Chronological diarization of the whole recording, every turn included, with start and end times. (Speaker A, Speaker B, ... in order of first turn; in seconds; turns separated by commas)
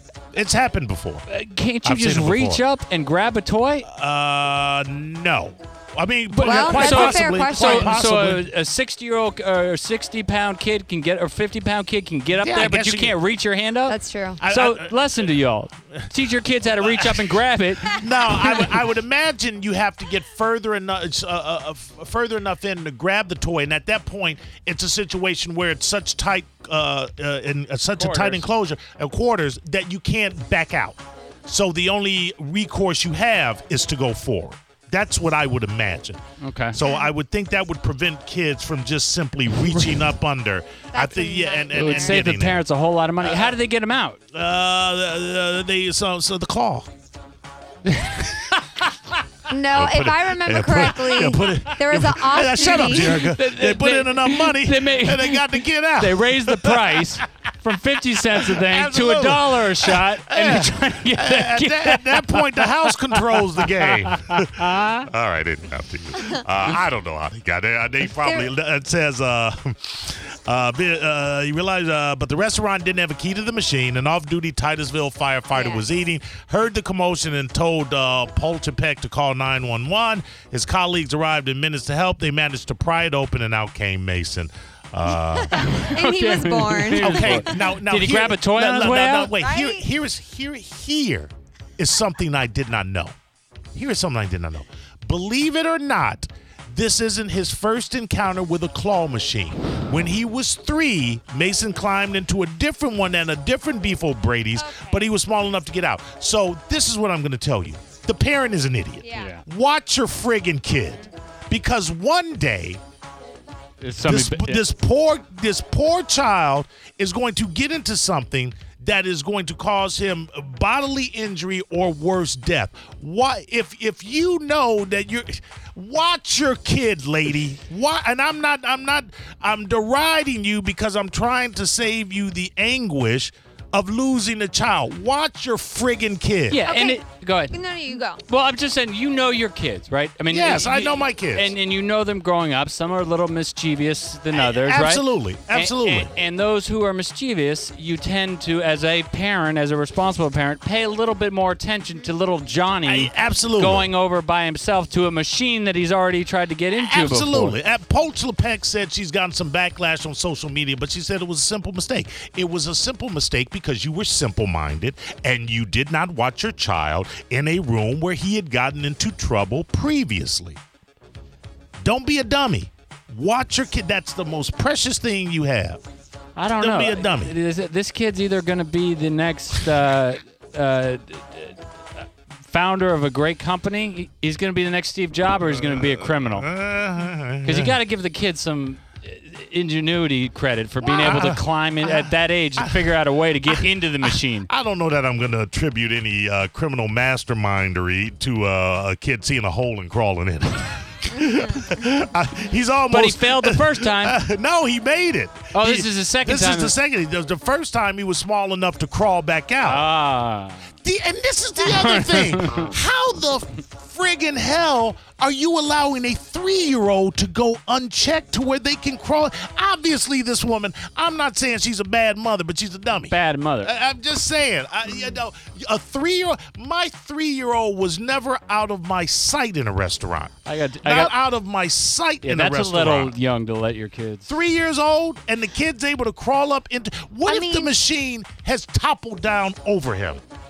Speaker A: 0.3-1.2, Speaker B: 1.3-3.9, Speaker A: 1.8-2.6, Speaker A: 3.8-8.5, Speaker B: 6.3-18.0, Speaker C: 6.4-8.0, Speaker A: 12.4-13.1, Speaker C: 13.9-14.4, Speaker A: 14.4-14.9, Speaker A: 16.8-17.2, Speaker A: 17.8-36.2, Speaker B: 27.9-28.4, Speaker B: 36.4-36.8, Speaker A: 36.7-42.6, Speaker B: 39.6-40.0, Speaker C: 40.9-42.2, Speaker B: 41.7-44.2, Speaker A: 43.2-43.5, Speaker A: 44.3-46.9, Speaker B: 47.9-48.4, Speaker C: 49.5-53.3, Speaker A: 49.7-57.2, Speaker B: 52.6-65.1, Speaker A: 58.2-86.0, Speaker C: 68.2-68.5, Speaker C: 75.5-75.8, Speaker C: 85.4-87.6, Speaker B: 85.5-89.3, Speaker A: 86.9-93.1, Speaker C: 89.4-89.9, Speaker A: 93.7-112.8, Speaker C: 104.5-105.1, Speaker C: 109.0-109.3, Speaker B: 109.1-109.4, Speaker B: 113.8-114.6, Speaker A: 114.0-136.7, Speaker B: 136.5-157.6, Speaker C: 136.6-138.2, Speaker A: 140.3-141.5, Speaker A: 144.3-146.1, Speaker A: 152.8-153.9, Speaker A: 156.7-170.6, Speaker A: 171.8-175.8, Speaker B: 176.3-181.6, Speaker A: 176.6-177.3, Speaker B: 182.5-186.5, Speaker A: 185.4-187.8, Speaker B: 187.4-194.5, Speaker C: 190.9-191.2, Speaker A: 190.9-192.8, Speaker A: 193.5-209.9, Speaker B: 202.9-204.2, Speaker B: 205.5-206.7, Speaker B: 209.6-210.7, Speaker A: 210.8-233.1, Speaker B: 211.6-212.7, Speaker B: 223.0-223.7, Speaker B: 230.4-231.1, Speaker B: 232.2-234.3, Speaker A: 234.3-240.2, Speaker C: 237.3-237.7